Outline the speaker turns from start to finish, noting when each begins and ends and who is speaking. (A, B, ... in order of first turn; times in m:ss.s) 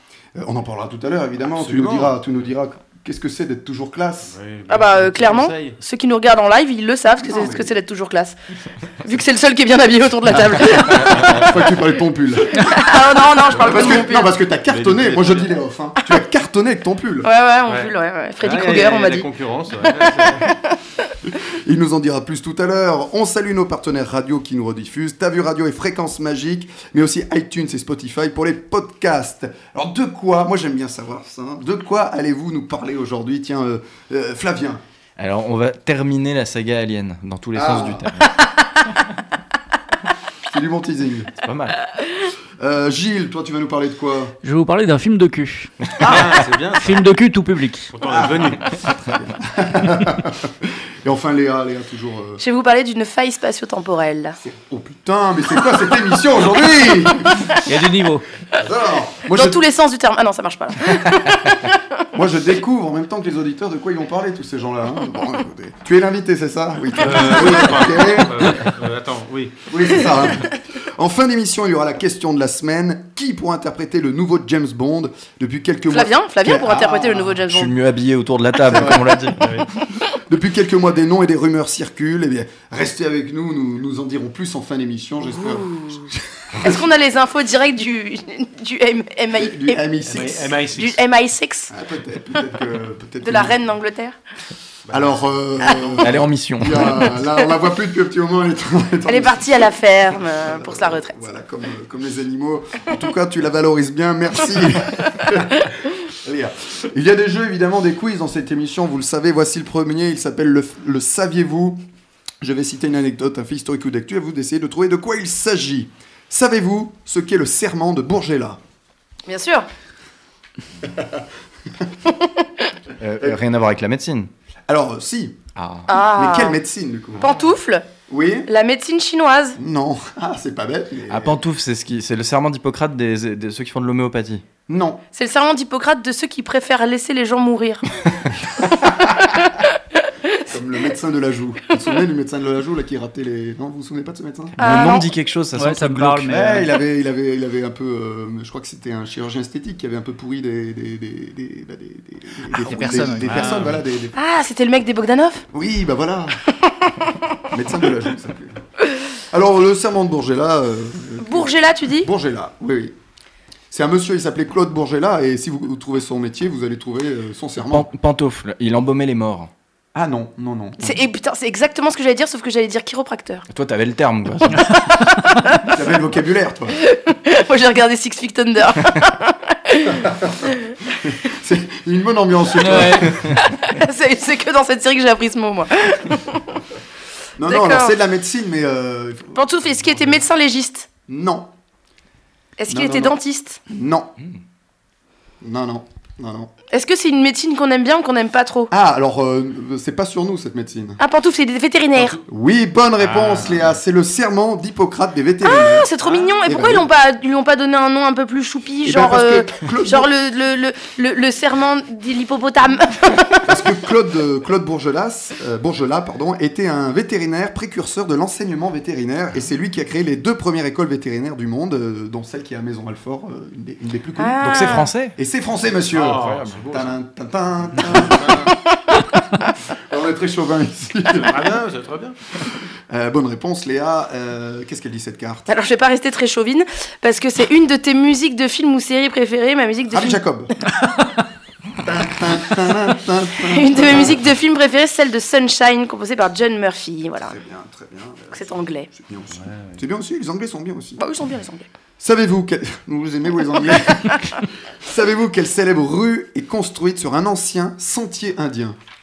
0:00.3-0:04.3 A
0:01.4-0:02.2 B
0:04.2-0:05.8 B
0:04.7-0:08.4 C
0:07.2-0:07.8 A
0:09.0-0:11.5 C
0:11.1-0:12.9 A
0:12.5-0:14.3 C
0:13.5-0:17.3 A
0:14.7-0:15.5 B
0:17.2-0:19.3 C
0:17.7-0:20.5 B
0:19.8-0:20.8 C
0:21.2-0:34.8 A
0:35.2-0:38.4 D
0:37.5-0:38.1 A
0:40.5-0:41.4 A
0:41.4-0:41.8 D
0:42.6-0:44.4 A
0:44.4-0:46.0 E
0:46.0-0:47.0 B
0:46.8-0:47.9 E
0:47.9-0:48.8 B
0:48.0-0:52.4 A
0:52.4-0:54.4 C
0:54.4-0:57.4 A
0:57.2-0:57.6 C
0:57.6-0:58.2 E
0:58.6-0:59.6 A
0:59.3-1:01.8 C
1:02.1-1:08.6 A
1:07.0-1:10.2 B
1:09.7-1:17.4 A
1:15.9-1:17.7 C
1:17.5-1:19.6 D
1:18.6-1:19.3 A
1:19.4-1:19.7 B
1:20.2-1:26.8 A
1:25.5-1:26.0 C
1:26.6-1:31.7 C
1:29.3-1:30.6 A
1:30.0-1:31.0 B
1:31.7-1:33.6 A
1:33.2-1:34.2 C
1:34.9-1:36.0 B
1:34.9-1:51.8 A
1:36.0-1:37.2 D
1:39.1-1:41.2 C
1:52.4-1:58.6 A
1:59.3-1:59.7 C
2:00.9-2:01.2 A
2:02.1-2:02.7 C
2:03.0-2:04.3 D
2:04.7-2:05.4 A
2:05.6-2:05.9 D
2:05.9-2:06.6 C
2:05.9-2:07.3 A
2:07.2-2:07.5 B
2:07.2-2:07.9 C
2:08.1-2:08.5 A
2:08.5-2:09.6 C
2:09.6-2:11.4 A
2:11.1-2:14.4 D
2:14.7-2:15.0 A
2:15.1-2:17.8 C
2:19.2-2:19.6 C
2:20.4-2:24.6 A
2:24.6-2:26.3 D
2:24.6-2:25.1 C
2:25.5-2:26.7 E
2:26.3-2:34.2 A
2:32.5-2:33.4 E
2:33.2-2:33.8 B
2:34.1-2:35.4 C
2:35.5-2:36.4 A
2:37.5-2:38.6 A
2:39.3-2:43.0 A
2:41.2-2:42.1 C
2:43.7-2:47.9 A
2:47.7-2:49.5 D
2:49.9-2:51.0 A
2:50.8-2:53.4 C
2:53.5-2:54.9 D
2:55.2-2:55.6 C
2:55.7-2:56.8 A
2:56.8-3:00.1 C
3:00.0-3:03.3 A
3:02.6-3:03.2 E
3:03.4-3:06.4 C
3:07.4-3:10.0 A
3:07.4-3:07.9 C
3:09.3-3:10.9 C
3:11.1-3:11.5 A
3:12.6-3:13.6 C
3:12.7-3:14.1 A
3:15.4-3:16.5 A
3:16.7-3:18.7 C
3:18.7-3:21.0 A
3:21.0-3:22.2 C
3:22.0-3:22.2 B
3:22.3-3:25.9 A
3:23.0-3:23.8 B
3:25.4-3:33.6 C
3:26.0-3:26.4 B
3:26.4-3:26.9 A
3:28.8-3:30.1 A
3:33.4-3:48.5 A
3:44.2-3:44.9 C
3:44.4-3:45.2 D
3:45.9-3:47.0 B
3:47.7-3:48.5 B
3:47.8-3:49.0 C
3:49.7-3:51.6 A
3:51.2-3:52.2 B
3:52.4-3:55.5 A
3:55.5-4:00.2 C
3:59.9-4:00.5 A
4:01.8-4:04.2 A
4:03.4-4:07.3 C
4:07.2-4:11.0 A
4:08.3-4:08.9 C
4:09.3-4:09.8 B
4:11.0-4:11.6 C
4:12.0-4:18.8 A
4:13.7-4:14.4 C